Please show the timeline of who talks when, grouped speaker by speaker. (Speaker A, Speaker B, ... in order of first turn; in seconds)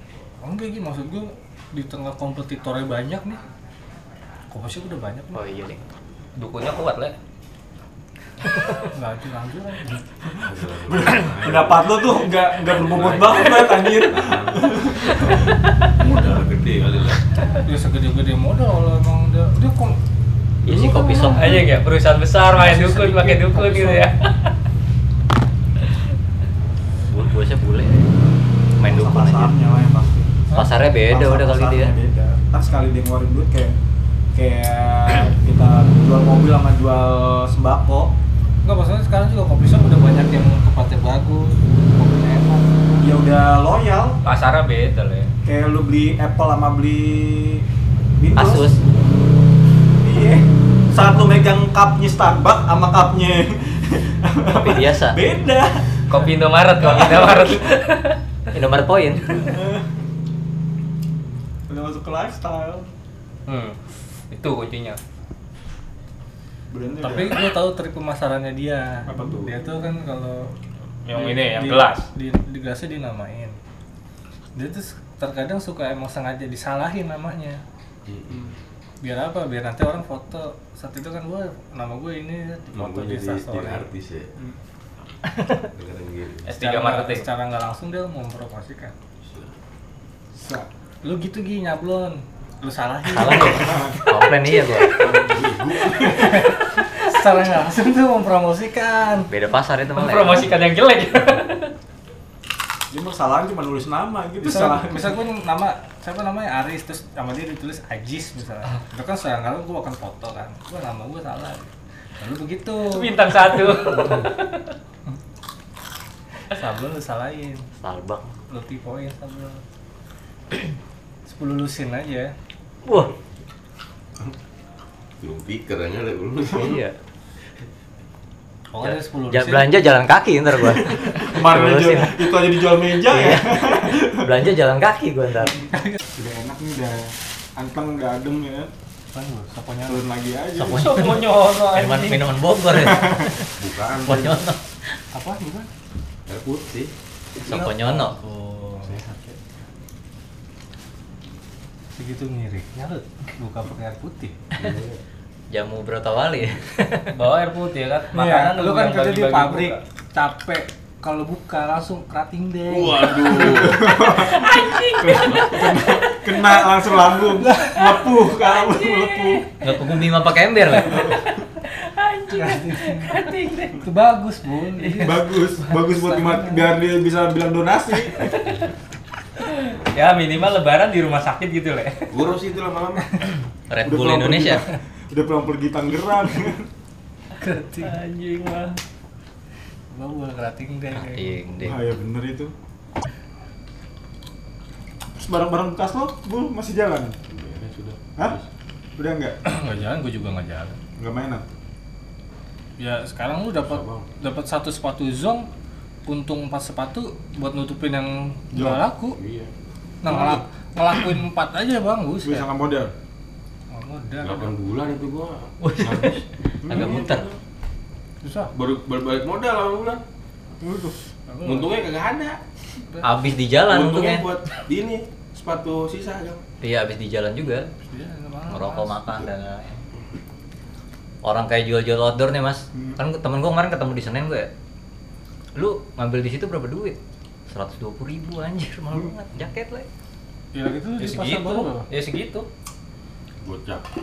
Speaker A: 0.4-3.4, 4.5-5.5, 8.8-10.0, 17.6-20.0, 20.6-21.6, 22.5-24.1, 38.6-42.7, 67.0-70.5, 71.1-73.6, 74.5-77.6, 79.0-83.9, 86.5-88.9, 91.0-94.0, 96.1-99.3, 104.4-113.6, 116.5-117.7, 118.5-119.6, 121.3-122.3, 128.7-129.8, 139.1-140.0, 145.1-145.7, 147.4-149.0, 151.9-154.4, 158.1-163.4, 167.3-168.2, 172.3-176.7, 187.4-188.0, 189.9-191.4, 199.4-200.8, 202.8-205.5, 206.1-209.2, 210.0-212.4, 213.7-214.5, 218.2-218.5, 221.3-221.7, 227.7-229.0, 240.5-241.9
Speaker B: 5.3-5.8, 20.6-21.7, 27.1-28.1, 28.8-29.6, 30.5-31.9, 48.3-48.8, 54.5-55.2, 58.5-59.6, 93.1-95.0, 99.3-100.5, 117.8-118.4, 122.8-123.1, 126.5-127.0, 128.8-132.2, 133.1-135.7, 140.6-144.7, 147.4-148.2, 155.5-157.1, 169.6-171.1, 183.7-184.6, 190.9-191.8, 215.6-217.3, 223.0-224.3, 226.6-227.7, 228.5-229.8, 231.2-234.5, 235.5-239.9
Speaker C: 6.3-7.2, 21.2-24.5, 44.2-45.3, 56.1-58.2, 63.5-63.8, 64.3-65.0, 71.0-72.0, 86.5-87.3, 99.9-101.7, 112.8-114.7, 140.7-142.2, 157.1-159.8, 163.6-166.2, 168.3-169.4, 171.1-173.8, 174.7-175.1, 178.2-178.7, 179.4-182.1, 187.8-188.8, 241.0-242.5
Speaker D: 10.2-15.3, 28.8-30.5, 31.1-33.8, 34.3-38.1, 43.0-44.2, 45.4-47.6, 48.2-48.7, 50.0-56.2, 56.8-57.6, 59.4-59.8, 61.7-62.9, 66.7-67.5, 69.1-69.6, 90.4-90.7, 93.4-93.9, 102.9-105.0, 130.7-134.3, 136.1-138.7, 139.8-140.9, 142.7-143.3, 163.2-169.4, 170.8-171.2, 175.0-178.3, 183.8-186.7, 191.6-192.5, 195.2-197.2, 198.9-199.4, 201.0-201.4, 210.1-210.4, 212.2-212.9, 216.7-217.0, 220.6-221.0
Speaker E: 10.4-17.2, 78.1-78.5, 82.7-84.3, 85.6-86.5, 89.2-89.5, 95.0-96.5, 125.2-126.8, 143.6-144.5, 146.3-146.9, 148.8-149.3, 154.6-155.0, 162.7-164.0, 165.1-165.8, 182.1-183.2, 197.3-198.4, 203.6-204.1, 209.1-209.5, 210.1-210.4, 214.2-217.3, 218.5-220.0, 221.4-222.4, 223.7-226.4, 243.4-243.8